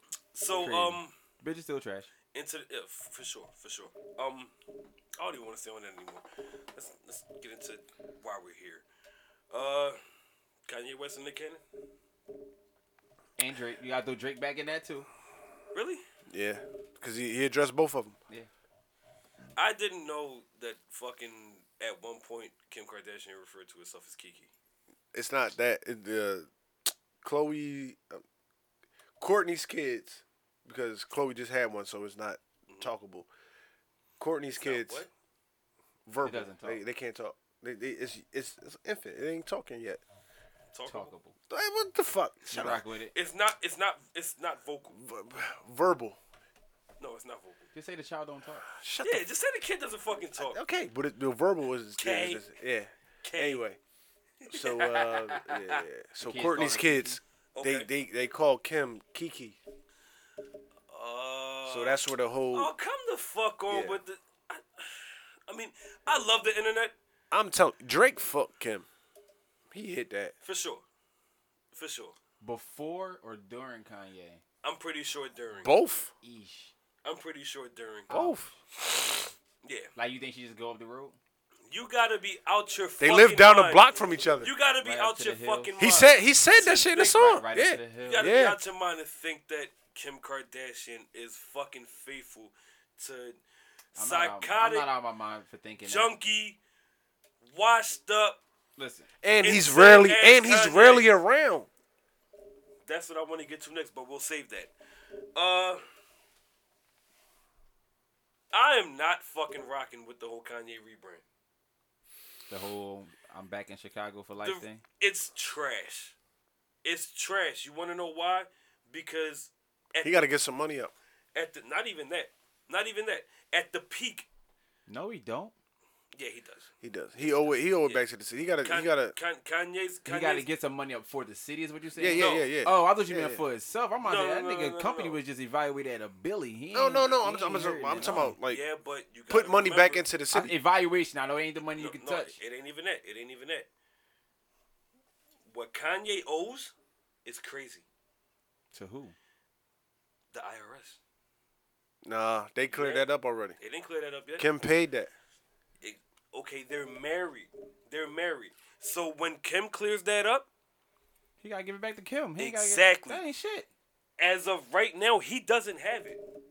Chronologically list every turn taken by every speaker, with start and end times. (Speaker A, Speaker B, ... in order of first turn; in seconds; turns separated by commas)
Speaker A: 0.3-1.1, Speaker B: 0.5-2.1, Speaker A: 2.3-4.5, Speaker A: 5.2-8.8, Speaker A: 9.5-10.0, Speaker A: 10.7-11.6, Speaker B: 13.4-15.1, Speaker A: 15.7-16.0, Speaker C: 16.3-18.2, Speaker A: 19.6-24.5, Speaker C: 25.1-26.5, Speaker C: 27.2-28.2, Speaker C: 29.2-33.3, Speaker C: 34.2-35.0, Speaker A: 34.5-35.1, Speaker C: 36.0-40.0, Speaker B: 36.2-36.8, Speaker A: 40.7-41.1, Speaker B: 40.9-41.3, Speaker C: 41.5-42.8, Speaker B: 42.5-43.1, Speaker A: 43.1-45.0, Speaker C: 44.9-46.2, Speaker A: 47.0-47.7, Speaker B: 47.7-48.7, Speaker C: 48.7-49.3, Speaker A: 49.0-50.6, Speaker C: 50.4-53.8, Speaker A: 52.0-52.5, Speaker A: 53.2-53.6, Speaker A: 54.5-55.8, Speaker C: 54.5-59.6, Speaker B: 56.2-57.2, Speaker A: 57.5-57.9, Speaker A: 60.9-66.9, Speaker C: 61.6-62.7, Speaker C: 63.7-64.0, Speaker C: 67.3-68.8, Speaker C: 69.7-70.3, Speaker A: 70.4-70.8, Speaker A: 71.7-72.1, Speaker B: 72.4-74.4, Speaker A: 74.6-75.7, Speaker C: 75.6-76.1, Speaker B: 76.2-76.7, Speaker A: 77.0-78.1, Speaker C: 78.1-79.0, Speaker B: 78.1-78.6, Speaker A: 79.6-79.9, Speaker B: 80.0-81.2, Speaker A: 81.7-87.4, Speaker C: 83.0-84.5, Speaker B: 84.8-85.8, Speaker C: 85.8-88.6, Speaker B: 87.1-88.3, Speaker A: 88.0-93.4, Speaker A: 94.0-94.9, Speaker B: 94.0-96.1, Speaker A: 95.8-96.6, Speaker A: 97.4-98.4, Speaker B: 98.8-99.1, Speaker C: 99.2-101.7, Speaker A: 99.4-101.1, Speaker A: 102.8-104.7, Speaker A: 105.3-105.8, Speaker A: 108.5-111.2, Speaker B: 112.5-114.8, Speaker A: 114.4-116.1, Speaker A: 116.8-120.3, Speaker C: 120.0-120.9, Speaker A: 121.3-124.3, Speaker B: 124.9-125.5, Speaker A: 126.1-126.7, Speaker C: 126.8-129.1, Speaker A: 127.7-128.0, Speaker A: 128.6-130.4, Speaker B: 130.1-138.4, Speaker C: 131.9-133.4, Speaker A: 132.1-132.5, Speaker A: 134.0-135.2, Speaker C: 136.7-138.6, Speaker A: 138.5-140.1, Speaker C: 139.3-140.5, Speaker B: 140.3-142.4, Speaker A: 141.8-143.7, Speaker A: 145.5-146.7, Speaker A: 147.2-147.8, Speaker B: 148.7-149.1, Speaker A: 150.3-151.0, Speaker C: 152.0-153.6, Speaker A: 152.7-154.5, Speaker C: 154.4-155.1, Speaker A: 155.8-160.5, Speaker B: 161.4-163.7, Speaker A: 162.4-163.2, Speaker A: 164.2-166.2